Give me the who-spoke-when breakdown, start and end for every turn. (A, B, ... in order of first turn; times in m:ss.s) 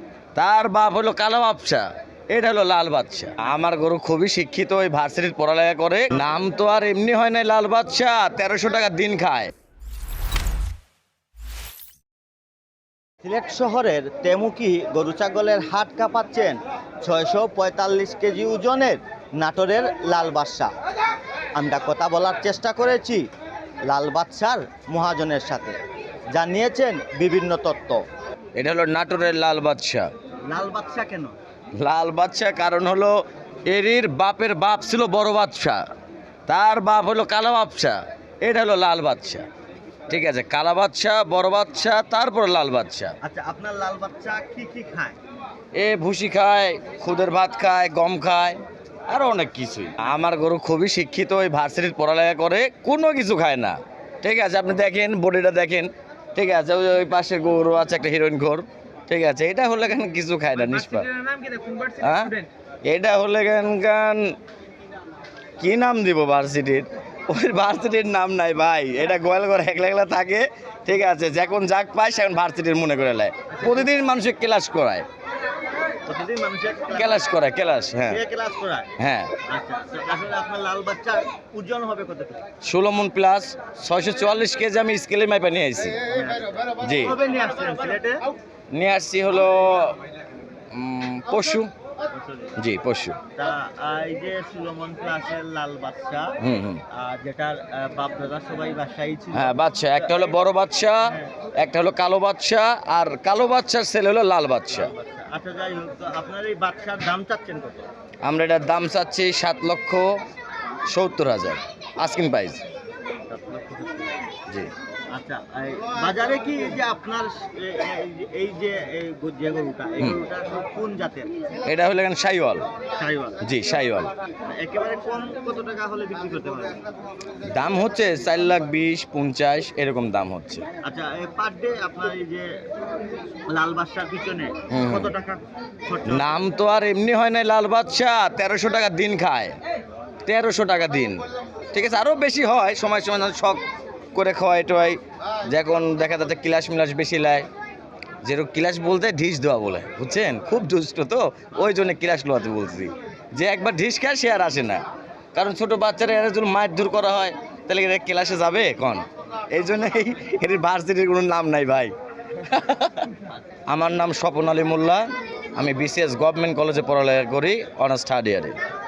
0:00.3-0:09.5 A
0:13.2-0:20.7 B
0:21.5-0:23.3 B
0:23.9-0:25.8 B
0:26.3-0:28.0 B
0:28.6-0:30.1 A
0:30.5-0:31.3 B
0:31.8-0:35.8 A
0:36.5-0:39.4 A
0:40.1-0:43.2 A
0:43.2-0:45.2 B
0:45.8-1:01.2 A
1:01.9-1:04.3 A
1:05.6-1:15.0 A
1:13.5-1:13.9 B
1:16.0-1:17.3 B
1:16.9-1:18.2 A
1:18.0-1:18.9 B
1:19.0-1:19.3 A
1:19.5-1:22.4 B
1:22.6-1:26.0 A
1:26.0-1:28.3 B
1:26.8-1:27.1 A
1:28.7-1:30.0 A
1:30.7-1:31.7 A
1:32.1-1:32.6 B
1:32.6-1:33.2 A
1:33.3-1:36.4 B
1:36.4-1:36.8 A
1:36.9-1:40.4 B
1:39.3-1:44.9 A
1:41.0-1:41.4 B
1:44.7-1:47.9 B
1:48.2-1:50.2 A
1:50.9-1:52.6 A
1:53.3-1:54.2 B
1:55.1-2:01.3 B
2:01.6-2:02.7 A
2:03.0-2:03.4 B
2:03.4-2:04.1 A
2:04.6-2:06.8 B
2:07.4-2:10.6 A
2:10.8-2:12.5 B
2:13.5-2:16.4 B
2:14.7-2:15.1 A
2:16.1-2:19.6 A
2:20.2-2:21.2 A
2:21.7-2:23.6 A
2:24.1-2:27.5 A
2:28.2-2:43.1 A
2:43.7-2:48.6 A